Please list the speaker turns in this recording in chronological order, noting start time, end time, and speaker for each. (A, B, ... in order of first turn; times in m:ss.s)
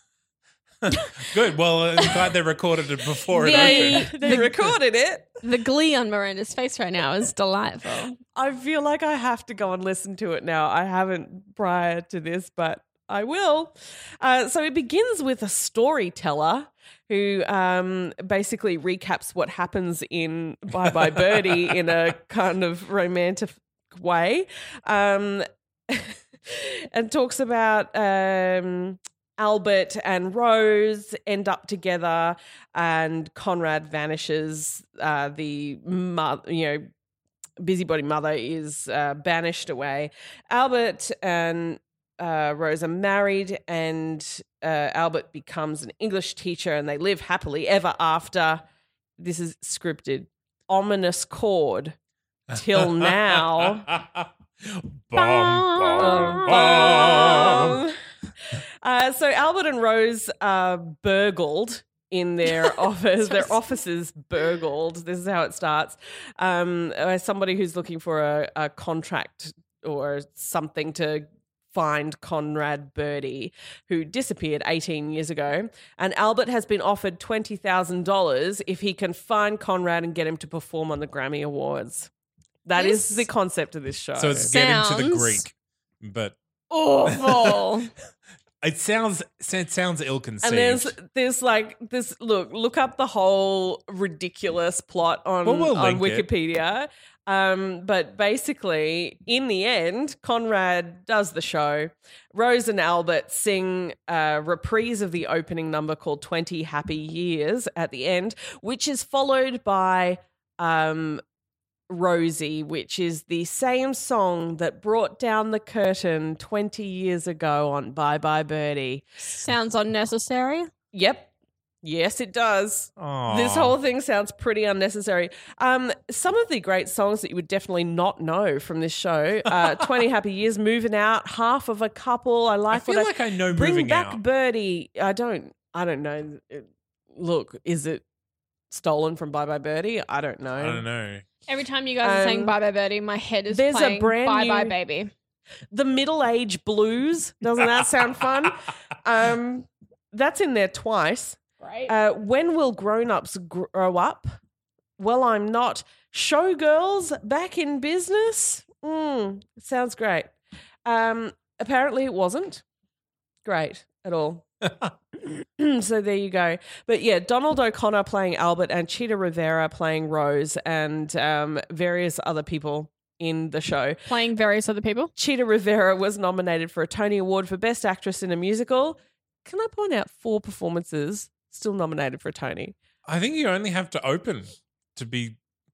0:00.8-0:04.7 A
0:03.3-0:05.4 B
0:03.4-0:04.5 C
0:05.4-0:08.2 C
0:08.4-0:36.9 B
0:21.3-0:21.7 A
0:37.6-0:48.6 B
0:49.2-0:52.0 B
0:52.5-0:57.8 A
0:52.5-0:53.9 B
0:55.2-0:57.6 C
0:56.0-0:58.0 B
0:58.8-1:22.1 B
1:02.7-1:03.6 C
1:22.6-1:24.5 B
1:22.8-1:23.3 C
1:24.2-1:26.4 A
1:24.5-1:25.4 C
1:26.7-1:27.9 C
1:27.0-1:27.7 A
1:28.6-1:31.0 A
1:30.4-1:51.2 B
1:35.4-1:36.3 A
1:51.9-1:59.0 B
1:59.2-2:00.7 C
2:00.9-2:01.3 B
2:01.8-2:18.0 B
2:03.0-2:03.8 A
2:12.7-2:14.2 A
2:18.7-2:20.8 B
2:20.6-2:21.2 A
2:21.5-2:25.1 C
2:22.0-2:22.6 B
2:23.5-2:24.8 B
2:25.7-2:34.3 B
2:31.6-2:31.9 C
2:35.0-2:40.3 B
2:40.8-2:42.6 B
2:43.4-2:44.4 B
2:45.2-2:54.0 B
2:54.1-2:55.1 C
2:55.2-3:02.8 B
3:03.1-3:05.4 A